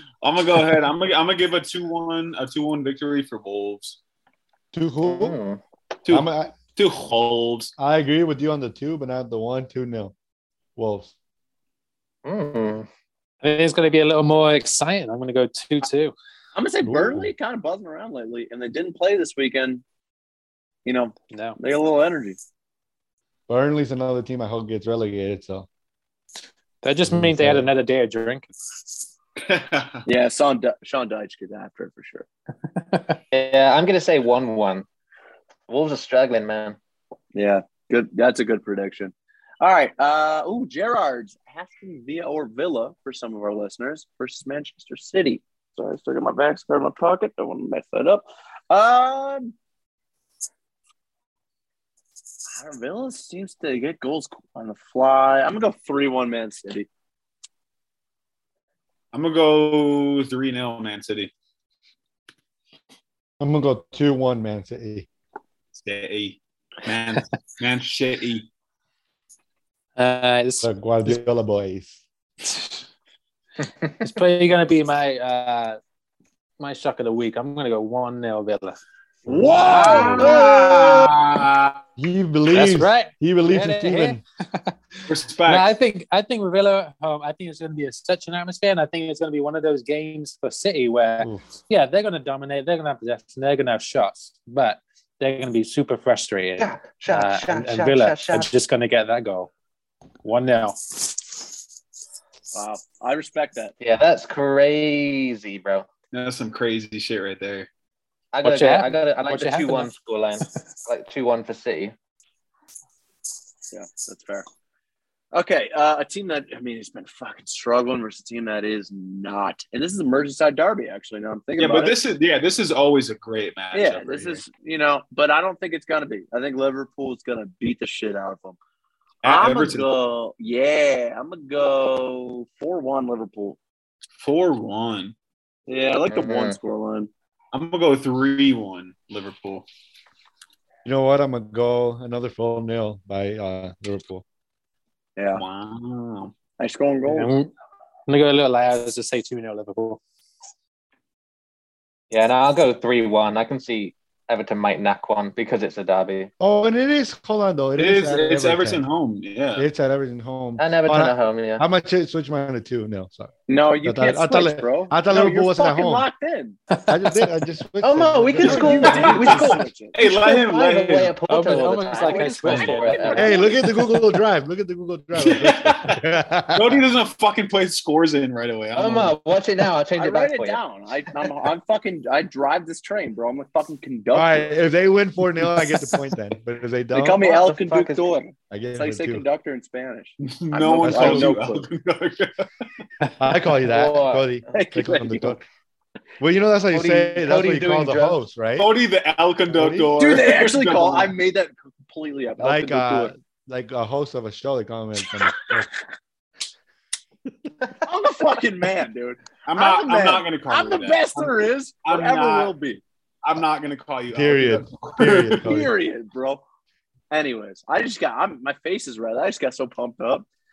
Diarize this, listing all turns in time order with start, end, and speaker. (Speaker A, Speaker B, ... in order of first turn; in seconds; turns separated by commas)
Speaker A: 0.2-4.0, Speaker B: 4.7-5.4, Speaker C: 5.0-5.6, Speaker A: 6.0-7.7, Speaker B: 6.1-6.6, Speaker B: 7.8-10.1, Speaker B: 10.8-11.1, Speaker C: 12.2-12.9, Speaker D: 13.4-16.1, Speaker E: 16.6-19.8, Speaker B: 16.8-17.3, Speaker E: 20.9-22.4, Speaker D: 21.3-21.6, Speaker B: 23.5-25.7, Speaker D: 26.8-28.7, Speaker B: 27.1-27.7, Speaker A: 29.4-30.0, Speaker E: 30.1-32.3, Speaker C: 33.3-34.9, Speaker C: 35.7-36.8, Speaker E: 37.3-49.5, Speaker E: 52.5-56.9, Speaker A: 59.1-61.3, Speaker B: 63.4-65.1, Speaker A: 65.7-68.5, Speaker D: 70.0-71.2, Speaker B: 70.6-72.0, Speaker D: 72.5-72.7, Speaker D: 74.0-75.8, Speaker D: 76.6-78.8, Speaker B: 79.3-80.0, Speaker E: 79.3-80.3, Speaker D: 79.6-80.4, Speaker A: 79.6-81.8, Speaker C: 80.2-81.0, Speaker B: 82.0-84.2, Speaker D: 82.5-84.8, Speaker A: 85.1-85.7, Speaker D: 85.4-99.5, Speaker B: 91.2-91.5, Speaker C: 96.6-98.5, Speaker D: 100.2-101.2, Speaker E: 102.5-103.8, Speaker C: 103.8-105.9, Speaker A: 106.1-107.7, Speaker C: 108.3-111.9, Speaker D: 108.4-109.9, Speaker E: 113.7-114.5, Speaker E: 115.3-122.0, Speaker A: 121.6-124.4, Speaker E: 123.7-128.6, Speaker A: 129.2-129.9, Speaker E: 129.2-133.6, Speaker A: 134.2-135.2, Speaker E: 135.7-137.1, Speaker C: 136.1-136.6, Speaker A: 137.5-139.7, Speaker B: 140.8-144.2, Speaker E: 145.2-145.4, Speaker A: 145.3-146.3, Speaker E: 146.6-147.3, Speaker D: 147.1-147.5, Speaker D: 148.1-150.0, Speaker C: 152.1-156.3, Speaker B: 156.4-158.8, Speaker A: 157.8-159.7, Speaker B: 159.6-166.1, Speaker C: 160.6-161.7, Speaker E: 163.5-166.6, Speaker D: 166.7-167.2, Speaker B: 166.9-169.4, Speaker C: 167.8-173.4, Speaker E: 168.4-170.0, Speaker A: 168.8-171.2, Speaker D: 171.3-173.2, Speaker E: 171.9-173.6, Speaker A: 172.5-172.9, Speaker B: 173.2-176.8, Speaker A: 175.2-176.0, Speaker A: 176.5-179.2, Speaker C: 178.7-180.6, Speaker E: 180.0-184.6, Speaker B: 184.1-187.3, Speaker E: 186.9-191.7, Speaker C: 187.2-188.1, Speaker B: 188.5-189.2, Speaker A: 190.2-192.4, Speaker B: 190.8-191.3, Speaker B: 193.2-195.4, Speaker C: 193.6-194.3, Speaker E: 194.5-195.4, Speaker B: 196.2-198.7, Speaker C: 196.7-198.2, Speaker A: 198.6-201.2, Speaker B: 199.5-200.0, Speaker E: 200.0-203.1, Speaker B: 202.4-205.7, Speaker E: 207.8-212.8, Speaker A: 209.4-212.6, Speaker A: 213.2-215.5, Speaker B: 214.1-215.7, Speaker E: 215.4-216.4, Speaker E: 217.1-220.3